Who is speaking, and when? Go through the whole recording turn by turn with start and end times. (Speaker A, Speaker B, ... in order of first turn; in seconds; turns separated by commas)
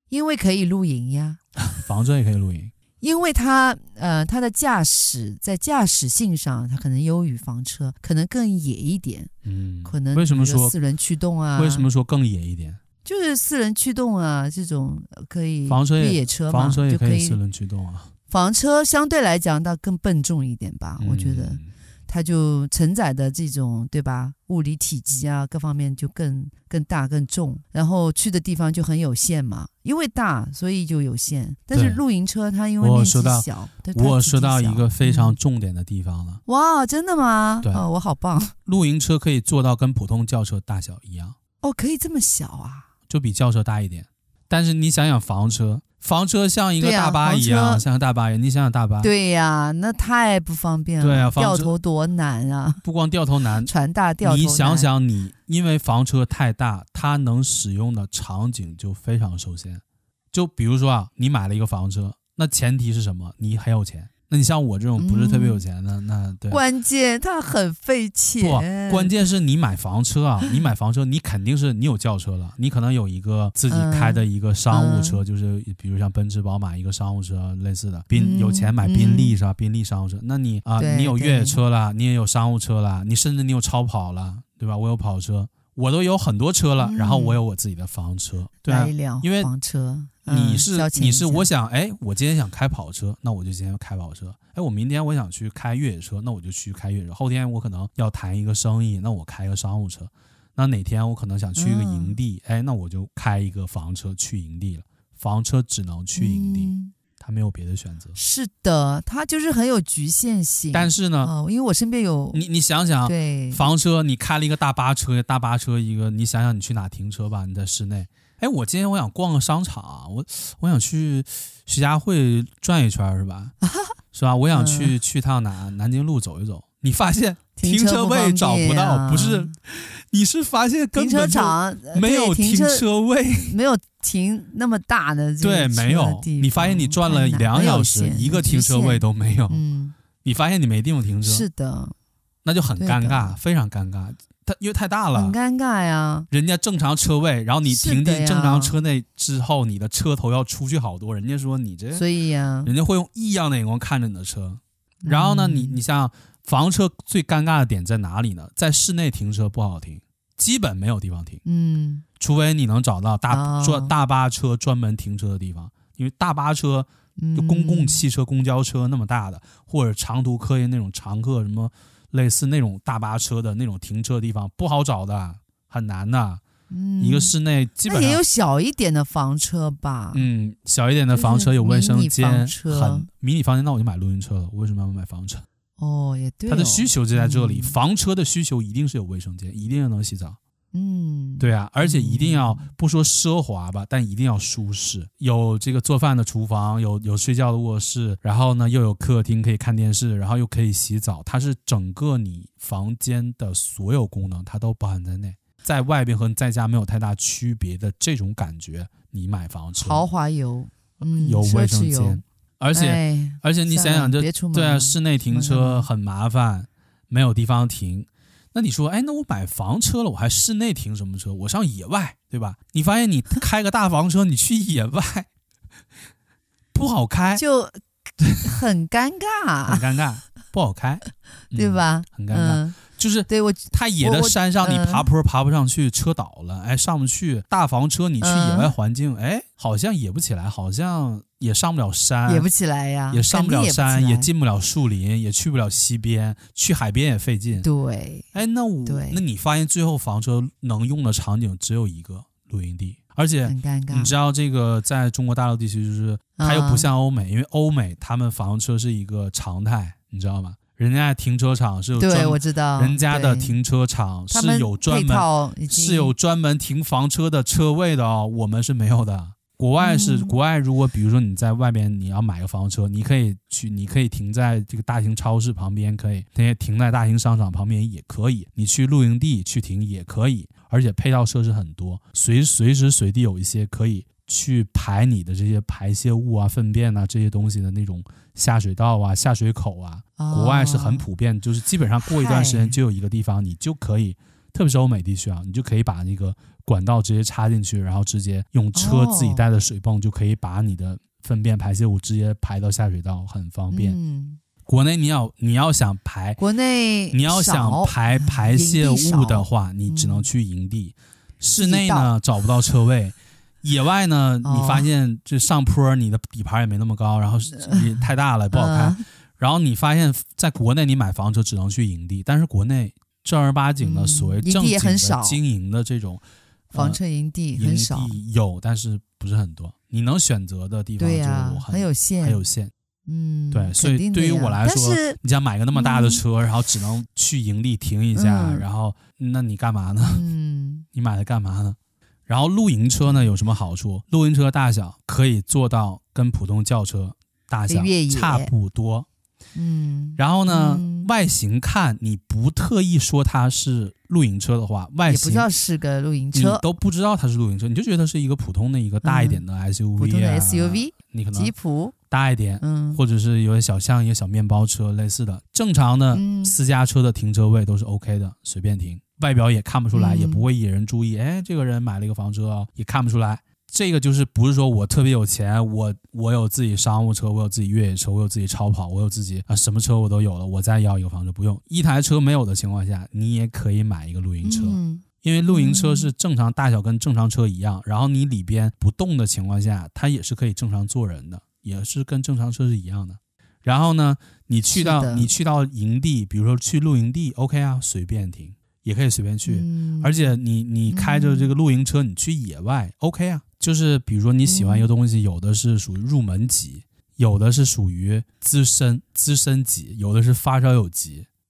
Speaker A: 0.1-1.4, Speaker B: 1.6-2.7, Speaker A: 3.0-9.3, Speaker B: 9.4-10.7, Speaker A: 9.8-11.9, Speaker B: 11.6-12.8, Speaker A: 13.0-17.4, Speaker B: 15.7-18.1, Speaker A: 18.3-35.4, Speaker B: 21.0-21.7, Speaker B: 31.7-32.0, Speaker B: 32.8-36.4, Speaker A: 36.5-38.5, Speaker B: 38.6-41.4, Speaker A: 41.6-42.9, Speaker B: 43.1-49.1, Speaker A: 46.8-47.8, Speaker A: 49.0-52.8, Speaker B: 51.0-51.7, Speaker B: 52.8-53.7, Speaker A: 53.6-54.9, Speaker B: 54.2-66.6, Speaker A: 65.0-65.6, Speaker A: 66.5-69.2, Speaker B: 68.4-89.5, Speaker A: 73.7-75.2, Speaker A: 78.1-79.3, Speaker A: 80.8-81.6, Speaker A: 86.8-87.4, Speaker A: 88.7-91.5, Speaker B: 90.3-108.2, Speaker A: 101.5-102.2, Speaker A: 106.2-106.9, Speaker A: 108.1-112.4, Speaker B: 110.7-111.3, Speaker B: 112.3-123.5, Speaker A: 113.0-113.6, Speaker A: 123.6-123.9, Speaker B: 124.1-133.5, Speaker A: 124.5-125.0, Speaker A: 127.5-129.5, Speaker A: 130.9-139.9, Speaker B: 135.4-139.6, Speaker B: 140.2-141.5, Speaker A: 141.2-141.9, Speaker B: 142.4-145.3, Speaker A: 142.8-143.4, Speaker A: 145.1-146.3, Speaker B: 146.3-152.1, Speaker A: 147.7-148.8, Speaker A: 151.9-152.7, Speaker B: 152.6-161.4, Speaker A: 155.0-155.8, Speaker A: 161.4-162.0, Speaker B: 162.2-176.4, Speaker A: 163.3-163.9, Speaker A: 167.2-168.0, Speaker A: 176.7-177.3, Speaker B: 177.0-178.2, Speaker A: 177.8-180.2, Speaker B: 180.1-185.4, Speaker A: 181.1-183.1, Speaker A: 185.8-187.8, Speaker B: 186.5-190.4, Speaker A: 190.7-192.7, Speaker B: 191.4-210.1, Speaker A: 209.8-212.2, Speaker B: 211.0-225.3, Speaker A: 212.7-215.9, Speaker B: 226.7-227.4, Speaker A: 227.3-227.8, Speaker B: 228.2-228.5, Speaker A: 228.4-229.8, Speaker B: 229.7-242.5, Speaker A: 231.5-232.8, Speaker A: 233.3-235.1, Speaker A: 238.2-238.7, Speaker A: 242.2-244.3, Speaker B: 243.1-247.7, Speaker A: 247.6-248.3, Speaker B: 248.3-304.0, Speaker A: 248.8-249.2, Speaker A: 253.4-254.1, Speaker A: 256.4-256.9, Speaker A: 261.9-263.6, Speaker A: 264.3-266.1, Speaker A: 269.8-270.3, Speaker A: 290.2-291.1, Speaker A: 292.0-292.8, Speaker A: 298.7-299.4, Speaker A: 303.7-304.4, Speaker B: 304.6-306.4, Speaker A: 306.4-310.3, Speaker B: 307.1-327.0, Speaker A: 311.6-312.1, Speaker A: 314.4-314.9, Speaker A: 317.5-319.0, Speaker A: 323.8-325.4, Speaker A: 326.7-328.2, Speaker B: 327.5-332.7, Speaker A: 331.0-332.4, Speaker A: 333.1-335.2, Speaker B: 333.5-340.2, Speaker A: 335.7-336.2, Speaker A: 338.1-338.6, Speaker A: 340.0-340.9, Speaker B: 340.9-349.1, Speaker A: 343.0-343.3, Speaker A: 347.7-348.5, Speaker A: 349.5-351.1, Speaker B: 350.2-355.5, Speaker A: 355.1-356.6, Speaker B: 356.3-361.5, Speaker A: 359.0-359.4, Speaker A: 360.0-361.9, Speaker B: 362.1-411.3, Speaker A: 362.6-363.0, Speaker A: 366.1-366.6, Speaker A: 369.9-370.4, Speaker A: 384.4-386.1, Speaker A: 394.7-395.3, Speaker A: 399.4-400.3, Speaker A: 400.9-401.5, Speaker A: 404.4-404.9